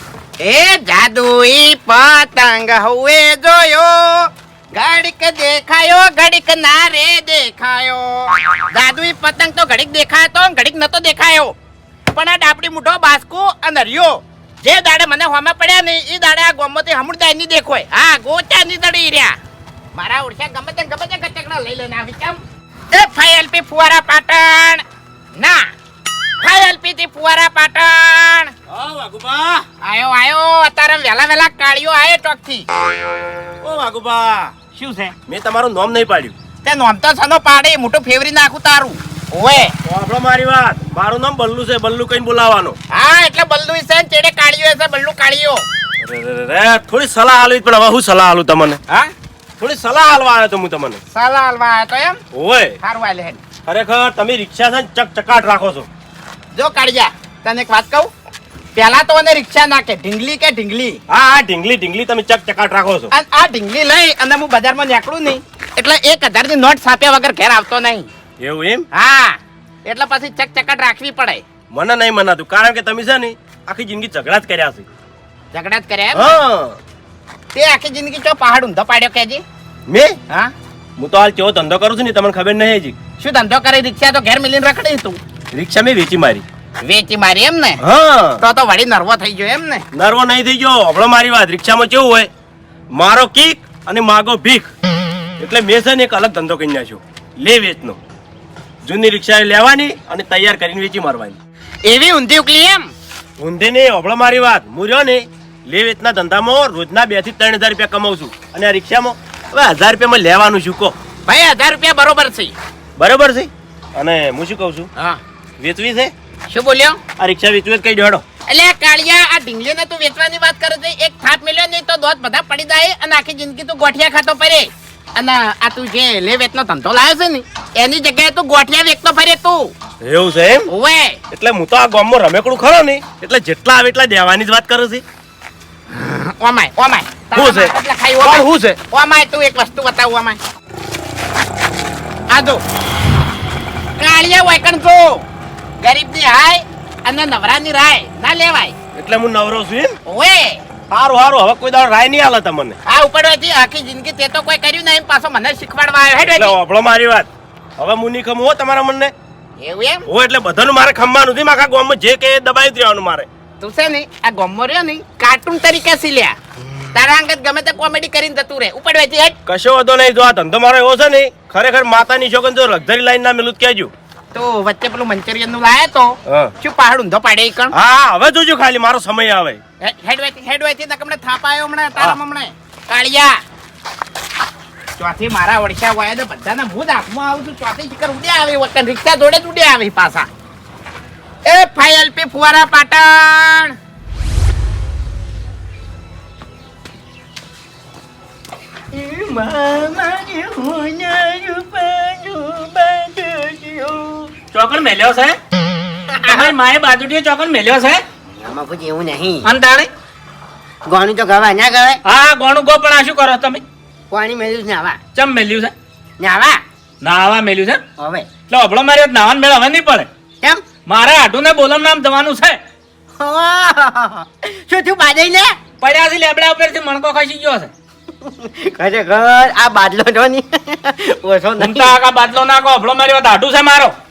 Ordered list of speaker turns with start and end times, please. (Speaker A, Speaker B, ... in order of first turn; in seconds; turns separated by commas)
Speaker A: 0.4-11.5, Speaker A: 12.1-19.4, Speaker A: 19.9-22.4, Speaker A: 22.9-24.8, Speaker A: 25.4-25.7, Speaker A: 26.4-28.5, Speaker B: 28.7-29.6, Speaker A: 29.8-32.6, Speaker B: 33.6-34.5, Speaker A: 34.7-35.1, Speaker B: 35.3-36.3, Speaker A: 36.6-39.7, Speaker B: 39.8-42.8, Speaker A: 42.9-45.6, Speaker B: 46.0-48.8, Speaker B: 49.6-51.0, Speaker A: 51.1-52.2, Speaker B: 52.3-52.8, Speaker A: 52.8-53.4, Speaker B: 53.6-55.9, Speaker A: 56.5-58.1, Speaker A: 58.8-61.0, Speaker B: 61.1-63.1, Speaker A: 63.1-68.1, Speaker B: 68.4-68.9, Speaker A: 68.9-71.4, Speaker B: 71.7-74.8, Speaker A: 75.5-76.3, Speaker B: 76.2-76.8, Speaker A: 77.5-79.4, Speaker B: 79.9-80.2, Speaker B: 81.0-83.0, Speaker A: 83.2-85.2, Speaker B: 85.5-86.4, Speaker A: 86.8-87.8, Speaker B: 87.8-88.4, Speaker A: 88.4-89.8, Speaker B: 89.9-92.3, Speaker B: 92.9-94.7, Speaker B: 95.4-98.0, Speaker B: 98.8-101.4, Speaker A: 101.8-102.9, Speaker B: 103.4-110.9, Speaker A: 111.3-112.5, Speaker B: 113.0-114.9, Speaker B: 115.6-116.1, Speaker A: 116.5-117.0, Speaker B: 117.2-118.2, Speaker A: 118.5-129.7, Speaker B: 130.0-130.7, Speaker A: 130.7-131.2, Speaker B: 131.3-135.0, Speaker A: 135.9-140.4, Speaker B: 137.3-138.8, Speaker A: 142.3-142.6, Speaker A: 144.0-145.2, Speaker A: 145.8-148.7, Speaker B: 148.9-150.0, Speaker A: 150.1-150.6, Speaker B: 150.9-152.8, Speaker A: 152.9-156.5, Speaker B: 156.3-159.1, Speaker A: 159.6-160.0, Speaker B: 160.1-163.3, Speaker A: 163.6-166.3, Speaker A: 166.9-169.4, Speaker B: 169.4-173.9, Speaker A: 174.3-177.7, Speaker B: 177.7-179.6, Speaker A: 179.8-183.4, Speaker A: 185.0-190.3, Speaker A: 191.4-193.7, Speaker C: 198.9-204.3, Speaker D: 204.5-205.4, Speaker C: 206.1-206.6, Speaker D: 206.2-208.0, Speaker C: 208.3-209.5, Speaker D: 209.4-209.9, Speaker C: 210.8-212.0, Speaker D: 212.0-213.6, Speaker C: 214.1-215.0, Speaker D: 215.1-215.7, Speaker C: 216.2-216.6, Speaker D: 217.0-217.8, Speaker C: 218.0-218.3, Speaker D: 218.5-220.1, Speaker D: 220.9-222.6, Speaker C: 223.2-225.6, Speaker D: 225.8-227.7, Speaker C: 228.2-232.0, Speaker D: 231.6-233.9